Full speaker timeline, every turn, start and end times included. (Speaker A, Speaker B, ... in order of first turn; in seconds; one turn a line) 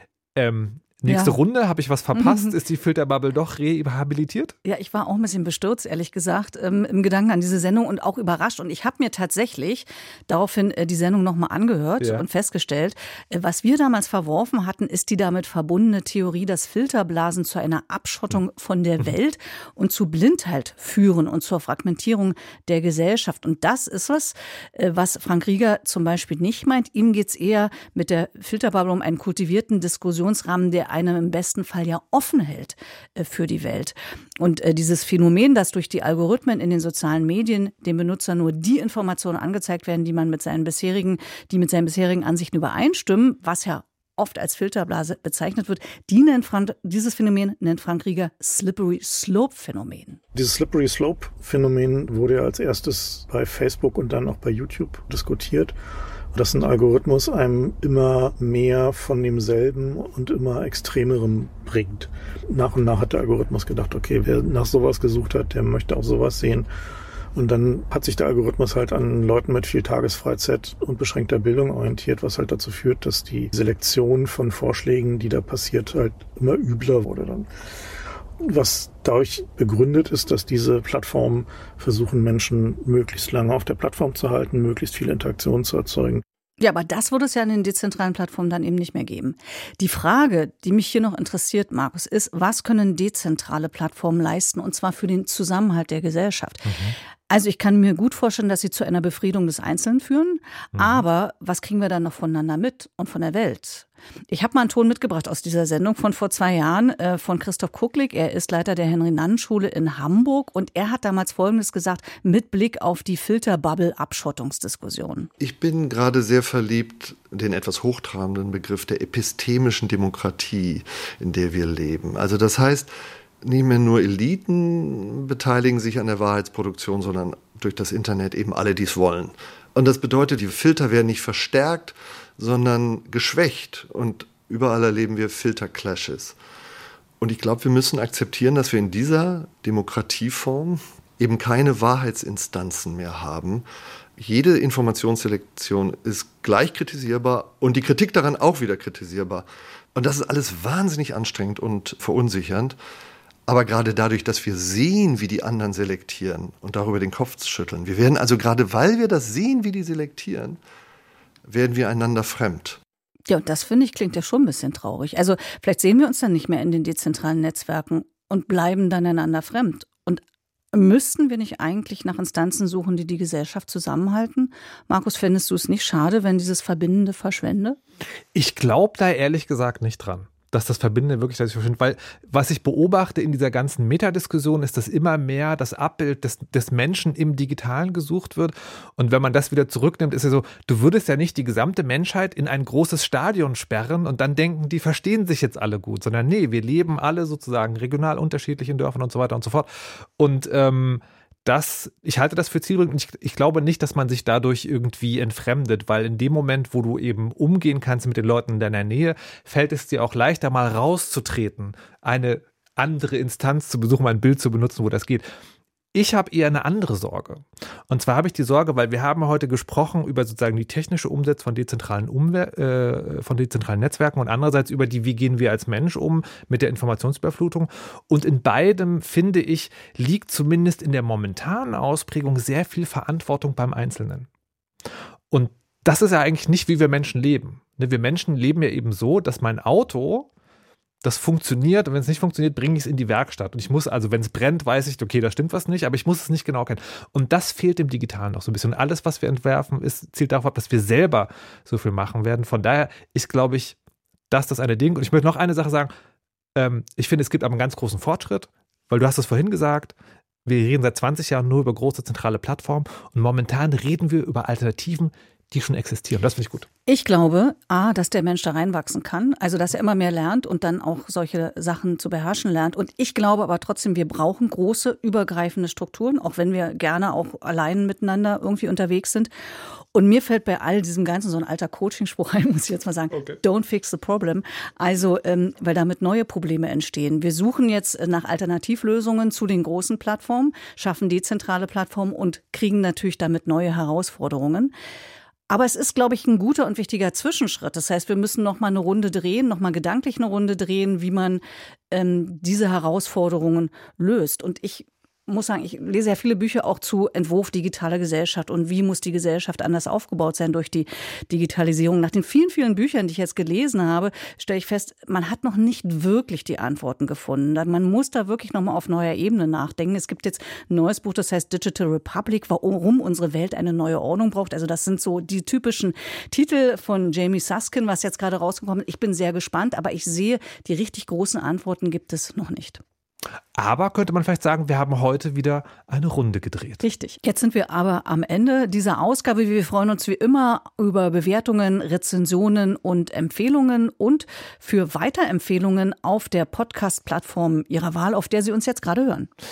Speaker A: 0.4-4.5
Speaker B: 1.1-1.4
Speaker B: 2.1-2.5
Speaker B: 4.6-50.2
Speaker A: 12.0-12.2
Speaker C: 50.3-55.8
Speaker C: 56.3-66.7
Speaker C: 67.3-77.5
Speaker C: 78.4-86.2
Speaker B: 86.6-96.8
Speaker A: 96.7-96.9
Speaker B: 97.3-115.3
Speaker A: 100.8-101.0
Speaker D: 115.4-122.9
Speaker D: 123.4-136.4
Speaker D: 137.2-143.7
Speaker D: 144.2-152.8
Speaker D: 153.5-160.6
Speaker D: 161.5-162.8
Speaker B: 163.3-170.2
Speaker B: 170.7-177.8
Speaker A: 178.3-215.3
Speaker A: 215.9-234.3
Speaker A: 235.3-240.3
Speaker A: 241.0-253.8
Speaker A: 254.3-255.9
Speaker A: 256.6-259.9
Speaker A: 260.5-266.7
Speaker B: 266.9-279.3
Speaker B: 279.9-294.7
Speaker A: 283.1-283.4
Speaker B: 295.5-332.8
Speaker A: 333.6-336.8
Speaker B: 336.8-349.3